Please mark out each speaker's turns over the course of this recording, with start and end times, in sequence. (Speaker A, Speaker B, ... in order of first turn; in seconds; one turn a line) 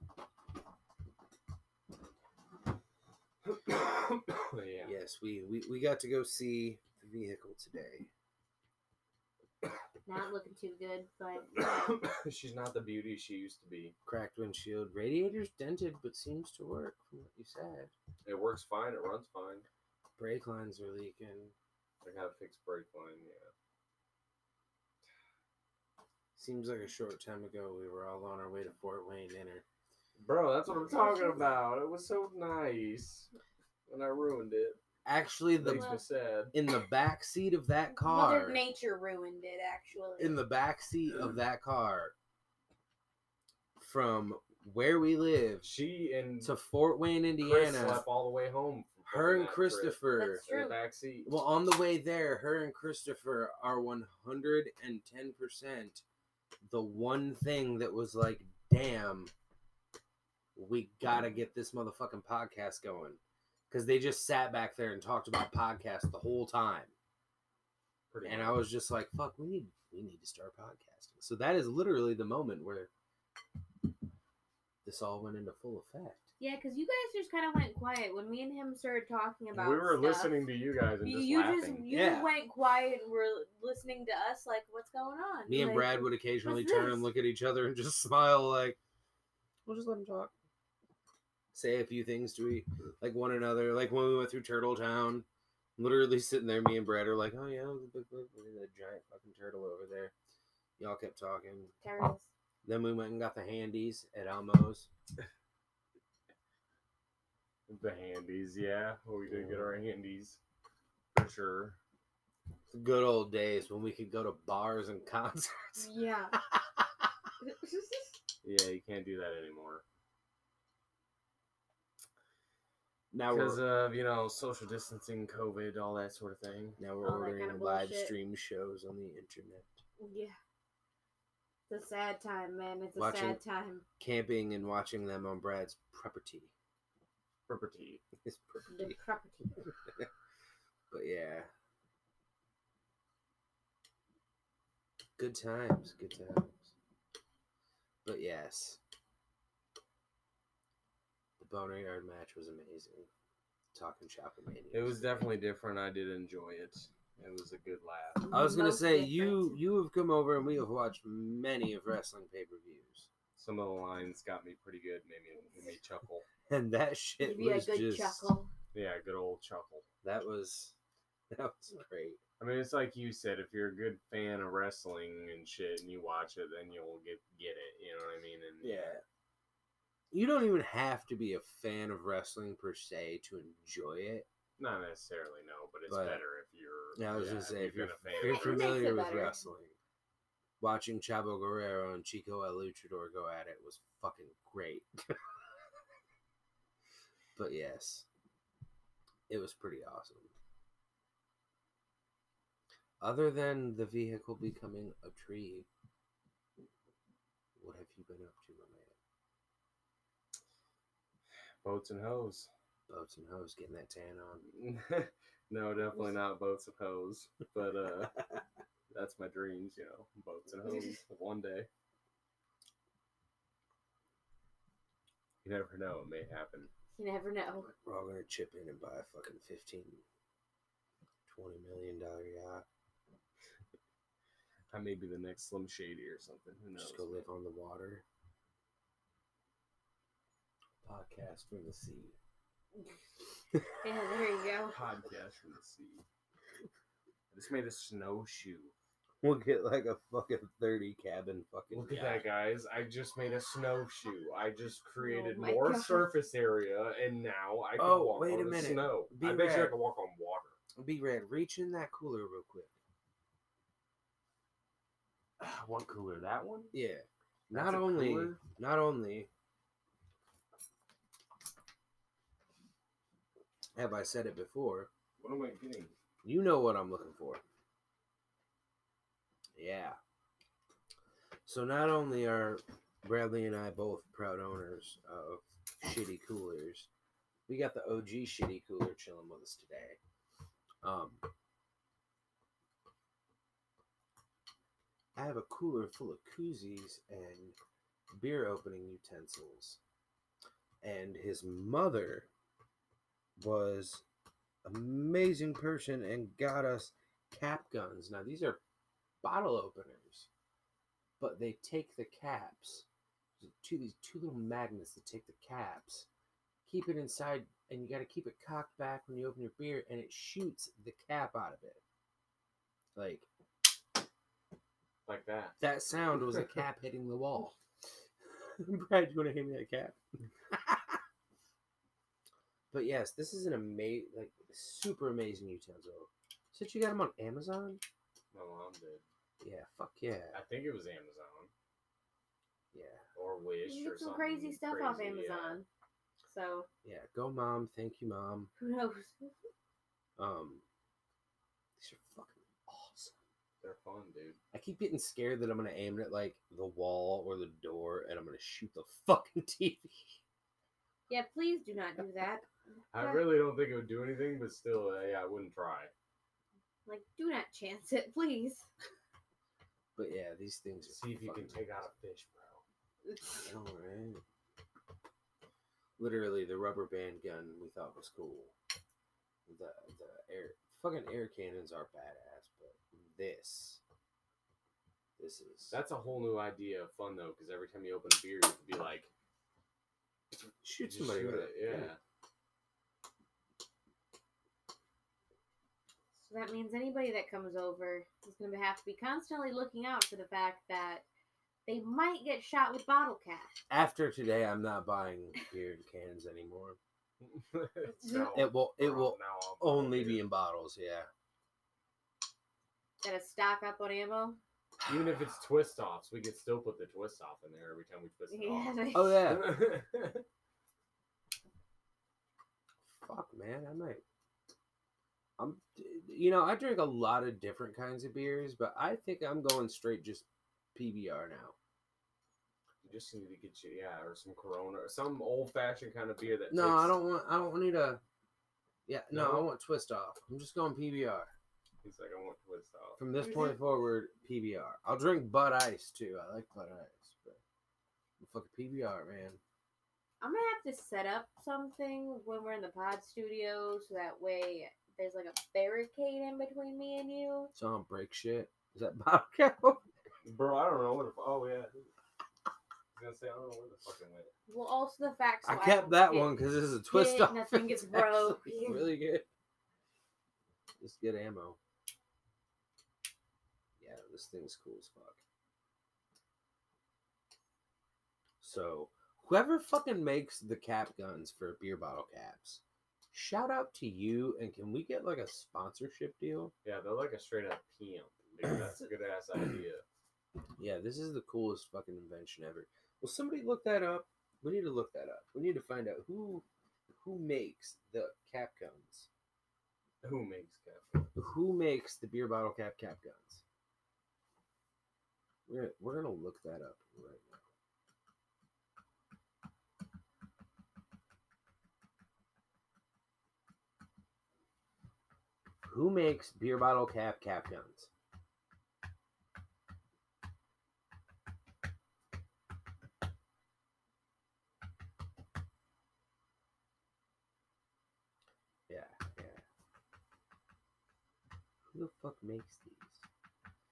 Speaker A: 3.5-5.0
Speaker B: 4.8-8.1
Speaker C: 10.1-11.9
Speaker A: 11.6-13.9
Speaker B: 14.1-17.9
Speaker A: 18.2-19.7
Speaker B: 20.2-21.5
Speaker A: 22.0-23.5
Speaker B: 26.4-29.6
Speaker A: 30.2-33.3
Speaker A: 33.9-34.8
Speaker B: 35.0-36.0
Speaker A: 35.5-36.5
Speaker C: 35.6-36.0
Speaker B: 36.5-38.6
Speaker C: 38.0-40.4
Speaker B: 40.2-42.1
Speaker B: 43.8-45.7
Speaker A: 45.6-46.5
Speaker B: 46.4-48.1
Speaker A: 47.4-51.3
Speaker B: 49.1-50.4
Speaker C: 50.1-50.8
Speaker B: 51.2-56.0
Speaker B: 56.7-59.3
Speaker B: 60.6-66.9
Speaker A: 68.1-68.7
Speaker B: 68.2-72.9
Speaker B: 74.8-76.3
Speaker C: 76.4-80.4
Speaker A: 79.5-81.9
Speaker C: 81.0-87.1
Speaker B: 81.9-82.3
Speaker B: 85.5-88.8
Speaker B: 89.7-90.3
Speaker B: 91.5-95.3
Speaker B: 95.8-100.1
Speaker B: 100.8-101.8
Speaker C: 101.8-102.3
Speaker B: 102.6-104.9
Speaker A: 107.7-110.4
Speaker B: 109.3-109.8
Speaker A: 111.1-111.8
Speaker B: 112.7-115.9
Speaker C: 115.8-116.4
Speaker C: 117.4-118.2
Speaker A: 118.4-119.8
Speaker B: 123.1-123.6
Speaker A: 123.3-126.8
Speaker B: 126.8-129.8
Speaker C: 127.0-128.1
Speaker C: 130.0-130.4
Speaker C: 131.7-133.8
Speaker B: 133.0-133.4
Speaker B: 134.0-136.5
Speaker A: 137.5-138.0
Speaker B: 138.2-139.0
Speaker C: 138.7-139.6
Speaker B: 139.6-140.1
Speaker B: 140.9-141.5
Speaker B: 145.2-146.7
Speaker B: 148.1-148.8
Speaker B: 151.4-153.1
Speaker B: 153.7-155.2
Speaker A: 154.7-158.3
Speaker C: 158.2-159.6
Speaker B: 158.3-163.1
Speaker A: 163.4-166.2
Speaker B: 166.5-168.3
Speaker C: 167.2-168.5
Speaker A: 168.7-169.8
Speaker B: 170.0-170.8
Speaker B: 171.3-172.2
Speaker A: 172.4-179.0
Speaker B: 178.6-179.0
Speaker B: 180.1-184.3
Speaker A: 184.6-188.8
Speaker B: 185.9-186.2
Speaker B: 186.9-189.8
Speaker C: 188.2-189.4
Speaker B: 190.6-195.2
Speaker B: 197.4-198.1
Speaker B: 199.3-200.3
Speaker B: 203.0-205.7
Speaker B: 207.6-208.9
Speaker A: 211.6-212.5
Speaker B: 212.9-214.5
Speaker A: 214.5-218.3
Speaker A: 218.9-221.7
Speaker C: 220.6-221.0
Speaker A: 225.4-226.7
Speaker C: 226.9-227.7
Speaker B: 227.8-230.0
Speaker B: 231.3-232.7
Speaker A: 234.7-237.2
Speaker B: 236.8-238.1
Speaker B: 240.8-242.2
Speaker C: 243.8-244.8
Speaker A: 244.7-246.0
Speaker A: 247.3-248.7
Speaker B: 249.2-252.3
Speaker A: 251.7-260.6
Speaker C: 255.0-256.1
Speaker B: 257.8-259.8
Speaker B: 260.8-262.7
Speaker A: 265.4-266.7
Speaker B: 266.7-269.3
Speaker A: 267.5-268.4
Speaker B: 273.8-274.9
Speaker A: 275.2-275.9
Speaker B: 276.2-277.4
Speaker B: 279.6-280.0
Speaker B: 281.5-286.9
Speaker B: 287.5-290.0
Speaker B: 290.8-291.2
Speaker B: 295.2-297.6
Speaker B: 298.1-299.8
Speaker B: 300.8-302.3
Speaker B: 303.4-304.0
Speaker B: 304.6-308.6
Speaker B: 309.2-310.3
Speaker B: 311.2-312.9
Speaker B: 313.4-316.1
Speaker B: 316.7-321.8
Speaker B: 323.0-323.3
Speaker A: 325.1-325.6
Speaker B: 325.6-327.6
Speaker B: 328.3-331.0
Speaker B: 332.7-337.8
Speaker A: 338.3-339.0
Speaker B: 339.4-340.4
Speaker A: 340.3-341.5
Speaker B: 342.7-343.1
Speaker A: 343.2-345.6
Speaker C: 343.6-345.7
Speaker C: 346.2-346.7
Speaker B: 346.8-348.5
Speaker C: 348.6-349.4
Speaker B: 350.2-350.6
Speaker B: 351.8-353.1
Speaker A: 353.6-354.4
Speaker B: 354.5-360.2
Speaker C: 361.1-363.4
Speaker A: 362.9-365.9
Speaker C: 366.9-368.7
Speaker B: 370.0-371.7
Speaker A: 370.9-372.6
Speaker B: 373.3-374.2
Speaker B: 376.0-378.5
Speaker B: 379.5-383.8
Speaker B: 385.2-385.8
Speaker A: 385.7-389.1
Speaker B: 390.6-391.9
Speaker A: 390.8-392.0
Speaker C: 396.1-401.1
Speaker C: 401.7-403.6
Speaker B: 403.7-406.8
Speaker A: 407.2-410.3
Speaker C: 408.0-408.5
Speaker B: 408.3-411.1
Speaker C: 413.0-414.4
Speaker A: 414.9-420.2
Speaker C: 418.3-419.3
Speaker B: 418.9-419.7
Speaker B: 422.9-424.0
Speaker B: 425.4-431.6
Speaker A: 432.8-437.0
Speaker B: 436.5-438.0
Speaker B: 438.9-441.3
Speaker A: 439.1-439.5
Speaker A: 441.8-443.0
Speaker B: 443.0-447.4
Speaker C: 443.2-443.9
Speaker B: 448.2-449.4
Speaker C: 450.2-457.5
Speaker B: 457.6-459.8
Speaker A: 460.2-461.7
Speaker A: 462.9-464.3
Speaker C: 464.5-469.0
Speaker B: 465.4-469.2
Speaker B: 470.8-471.6
Speaker B: 473.8-475.2
Speaker B: 478.4-486.5
Speaker A: 486.6-489.8
Speaker B: 490.6-499.1
Speaker A: 500.0-501.1
Speaker B: 501.1-503.4
Speaker B: 505.5-507.4
Speaker B: 515.6-517.9
Speaker B: 528.7-529.4
Speaker B: 531.7-533.0